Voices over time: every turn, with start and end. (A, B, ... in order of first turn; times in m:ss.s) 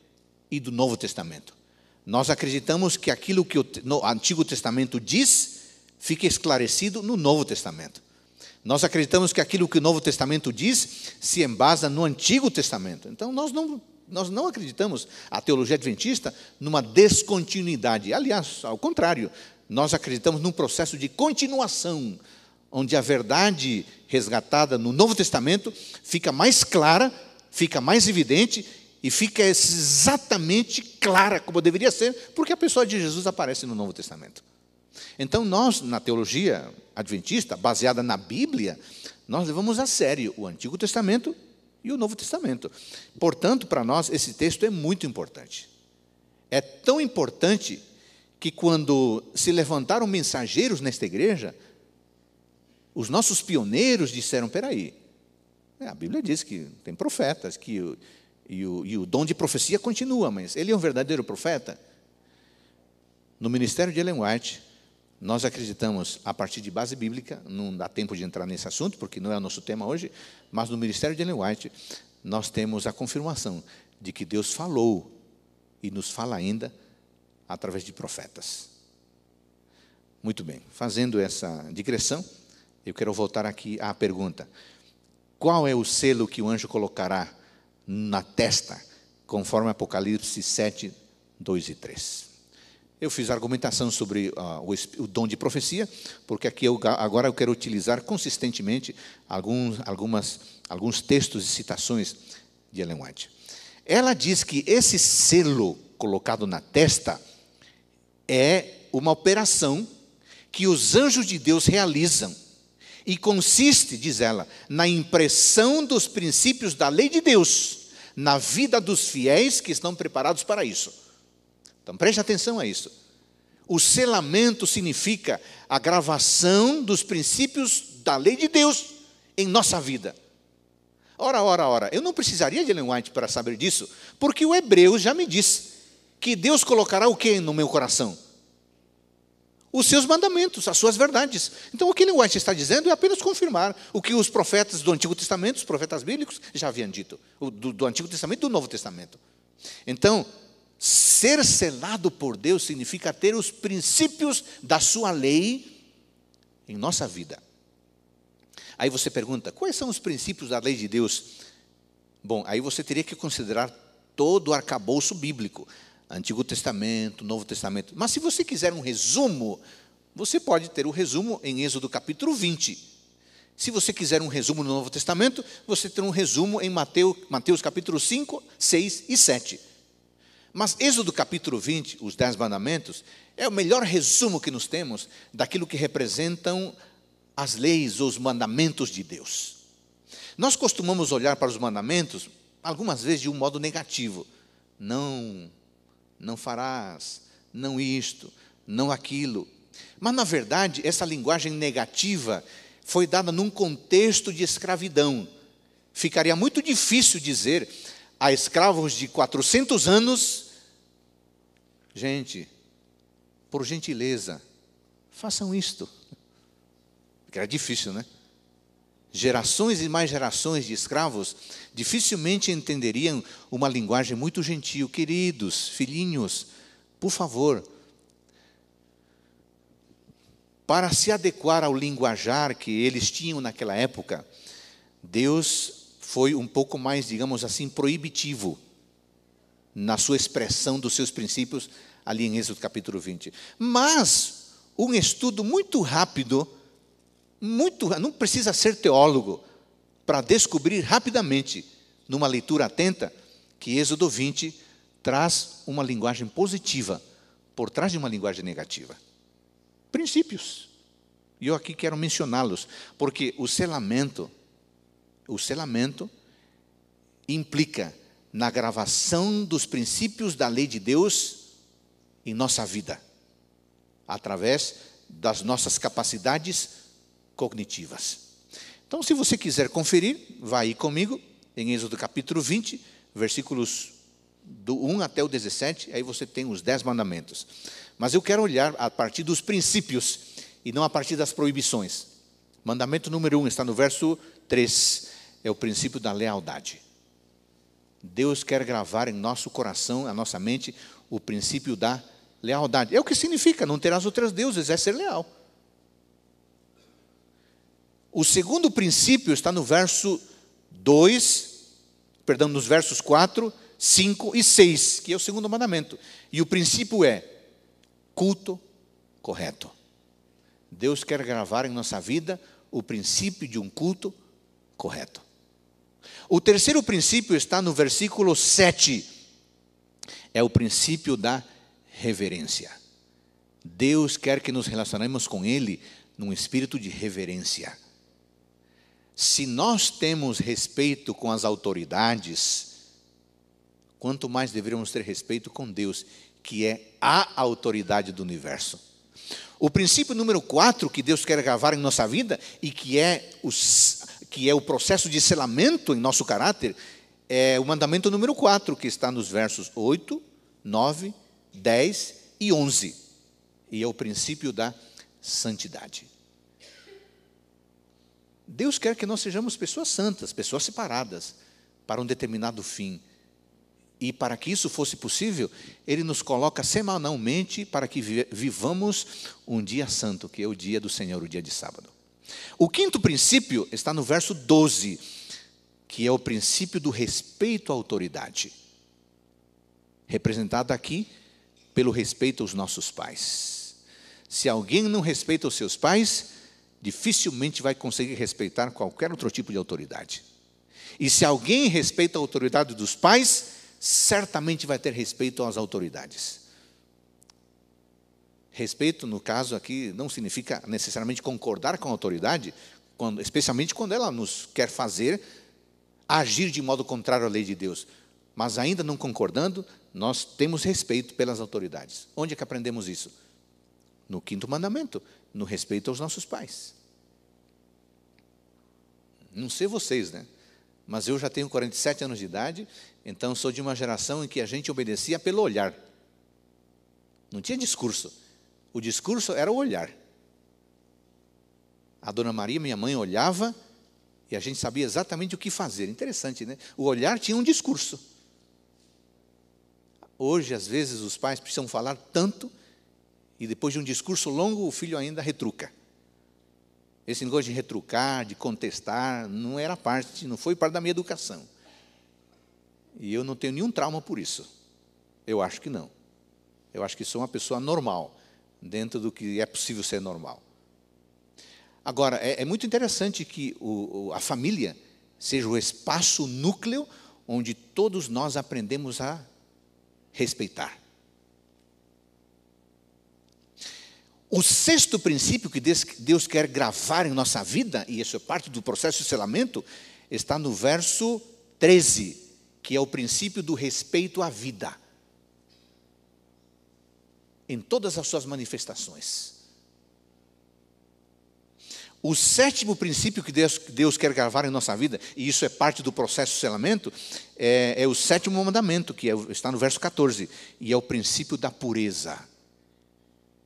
0:00.5-0:08.0 A
0:08.6-0:22.2 A
0:22.7-0:34.4 A
0:35.2-0:45.7 A
0:46.5-0:47.8 A
0:48.4-0:51.6 A
0:52.9-0:55.0 A
0:55.8-1:01.8 A
1:03.4-1:04.6 A
1:05.2-1:15.1 A
1:15.8-1:16.7 A
1:17.5-1:18.7 A
1:20.2-1:22.2 A
1:22.8-1:24.5 A
1:25.4-1:27.3 A
1:27.9-1:32.3 A
1:33.0-1:42.2 A
1:42.7-1:43.3 A
1:43.8-1:47.2 A
1:48.3-1:49.9 A
1:50.5-1:52.4 A
1:53.0-2:00.9 A
2:01.8-2:02.9 A
2:03.7-2:10.2 A
2:11.2-2:18.2 A
2:19.7-2:29.2 A
2:29.8-2:30.3 A
2:30.8-2:35.8 A
2:36.7-2:37.4 A
2:38.8-2:41.4 A
2:42.2-2:49.6 A
2:50.1-2:52.8 A
2:53.6-2:59.6 A
3:00.5-3:06.7 A
3:07.4-3:09.6 A
3:10.4-3:14.3 A
3:14.8-3:15.5 A
3:16.2-3:19.5 A
3:20.0-3:25.3 A
3:25.9-3:30.5 A
3:31.9-3:32.5 A
3:33.5-3:34.4 A
3:35.1-3:35.9 A
3:37.3-3:38.1 A
3:39.1-3:46.5 A
3:47.0-3:47.6 A
3:50.7-3:54.2 A
3:55.0-3:58.6 A
3:59.7-4:06.5 A
4:07.4-4:09.4 A
4:10.0-4:17.0 A
4:17.6-4:19.0 A
4:19.9-4:20.7 A
4:21.4-4:24.3 A
4:25.3-4:26.1 A
4:27.3-4:31.4 A
4:32.2-4:33.0 A
4:34.1-4:36.7 A
4:37.4-4:38.2 A
4:38.9-4:43.9 A
4:44.5-4:52.1 A
4:52.6-4:56.8 A
4:58.0-5:05.3 A
5:08.1-5:11.6 A
5:12.2-5:17.3 A
5:18.1-5:18.6 A
5:19.2-5:19.7 A
5:20.7-5:24.1 A
5:24.8-5:25.2 A
5:26.3-5:29.1 A
5:30.3-5:32.8 A
5:33.6-5:37.8 A
5:39.2-5:42.7 A
5:44.0-5:48.8 A
5:49.6-5:56.8 A
5:57.3-6:03.0 A
6:03.7-6:06.1 A
6:08.5-6:13.0 A
6:14.0-6:21.9 A
6:22.6-6:25.0 A
6:25.9-6:28.5 A
6:30.1-6:31.1 A
6:31.7-6:33.8 A
6:34.3-6:40.2 A
6:41.0-6:46.4 A
6:48.5-6:55.2 A
6:56.1-7:03.1 A
7:04.1-7:06.7 A
7:09.3-7:10.3 A
7:10.9-7:15.8 A
7:17.3-7:18.1 A
7:18.7-7:19.9 A
7:22.0-7:23.6 A
7:24.3-7:28.0 A
7:30.2-7:32.5 A
7:33.4-7:35.7 A
7:37.1-7:41.5 A
7:43.0-7:44.5 A
7:45.3-7:45.9 A
7:46.7-7:50.4 A
7:51.8-7:59.3 A
8:00.1-8:00.8 A
8:04.3-8:14.8 A
8:17.5-8:19.4 A
8:22.0-8:32.3 A